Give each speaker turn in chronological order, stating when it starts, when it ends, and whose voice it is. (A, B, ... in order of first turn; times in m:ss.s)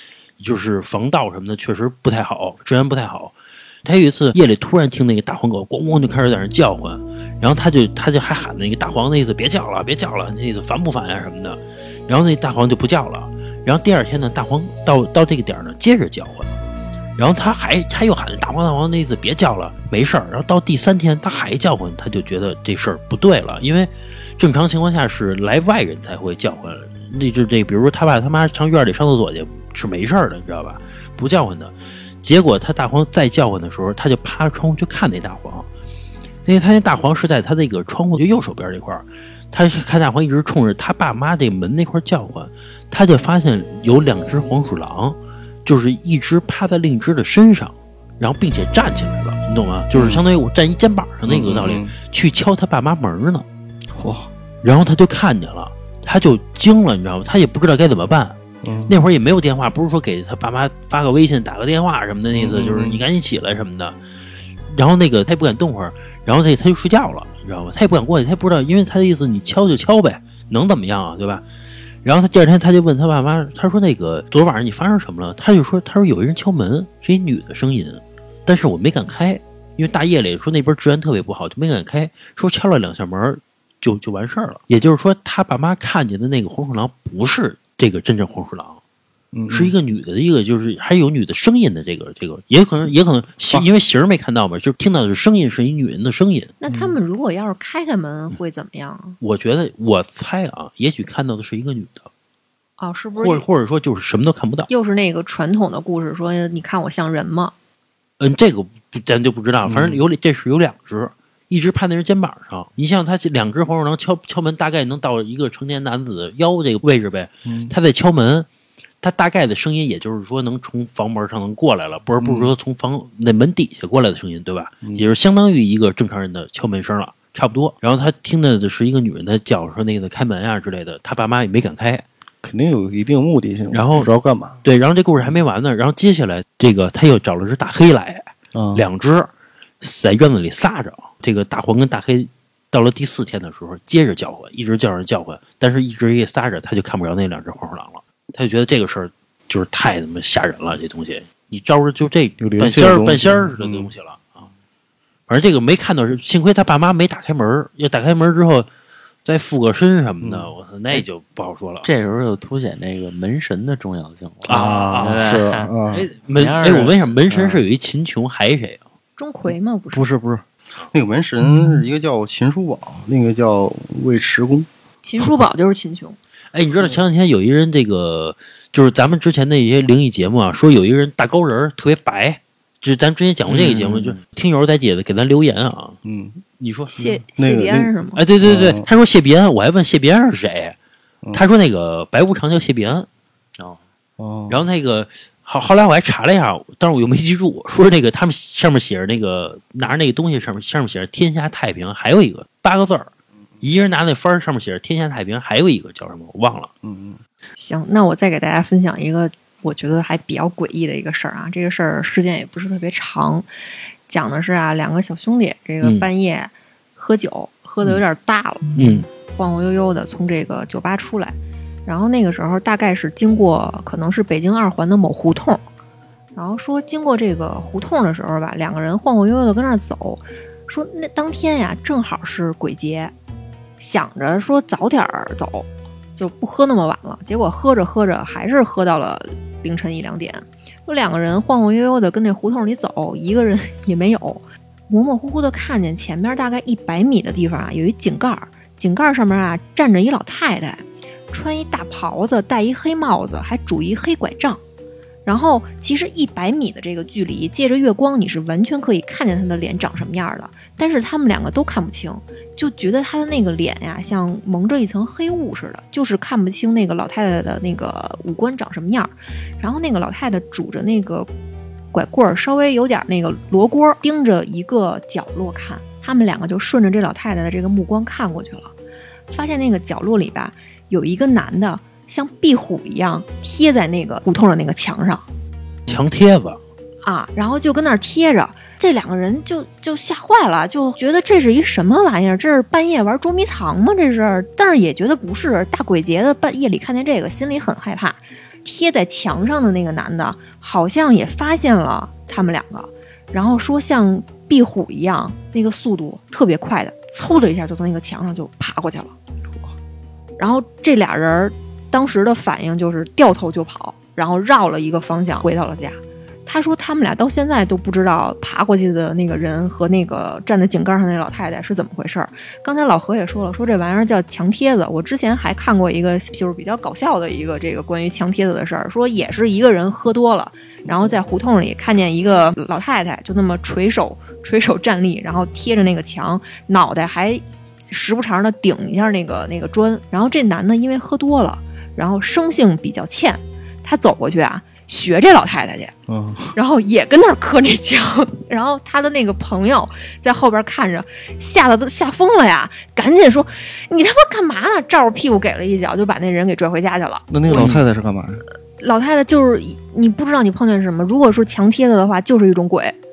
0:00.4-0:03.3 A
0:03.8-0:16.5 A
0:17.2-0:35.7 A
0:36.4-0:53.4 A
0:49.9-0:50.2 B
0:51.2-0:51.9 B
0:53.9-0:54.3 B
0:54.6-0:58.4 A
0:58.6-0:58.9 B
0:58.9-1:04.0 A
1:02.3-1:03.0 B
1:04.7-1:11.4 A
1:12.0-1:28.8 A
1:29.3-1:29.8 B
1:29.5-1:36.5 A
1:36.6-1:39.2 C
1:36.7-1:37.0 B
1:39.2-1:42.1 A
1:42.8-1:43.4 C
1:43.2-1:44.7 A
1:44.7-1:47.5 C
1:48.2-1:58.5 A
1:49.6-1:50.0 B
1:57.4-1:57.7 B
1:59.0-2:12.0 A
2:02.2-2:02.5 B
2:12.4-2:14.6 B
2:13.7-2:14.1 A
2:14.6-2:19.3 A
2:18.5-2:18.8 B
2:19.8-2:34.5 A
2:32.4-2:33.9 B
2:35.3-2:38.7 A
2:39.2-2:41.9 A
2:40.2-2:40.5 B
2:41.8-2:45.7 D
2:44.4-2:46.1 B
2:44.5-2:45.2 A
2:45.9-2:48.8 A
2:46.3-2:47.6 D
2:49.2-2:50.1 C
2:49.9-2:54.7 B
2:55.0-2:56.2 C
2:56.5-3:06.0 A
3:03.4-3:04.2 D
3:06.0-3:06.4 B
3:06.6-3:07.1 A
3:06.9-3:08.2 C
3:07.4-3:08.9 B
3:08.2-3:10.8 A
3:11.3-3:13.1 A
3:14.2-3:14.6 B
3:14.5-3:23.1 A
3:23.6-3:26.7 A
3:26.8-3:27.2 B
3:27.6-3:33.5 C
3:34.1-3:38.6 C
3:35.8-3:36.1 A
3:38.8-3:39.1 A
3:39.3-3:45.6 C
3:46.4-3:53.1 C
3:53.8-4:14.6 C
4:15.2-4:31.3 C
4:31.9-4:38.7 C
4:39.3-4:45.2 C
4:45.9-4:46.6 A
4:47.0-5:09.1 C
5:09.5-5:09.7 B
5:10.4-5:45.9 C
5:46.1-5:46.6 B
5:46.5-5:57.7 C
5:57.3-5:58.4 B
5:57.5-5:57.8 A
5:58.8-6:03.0 C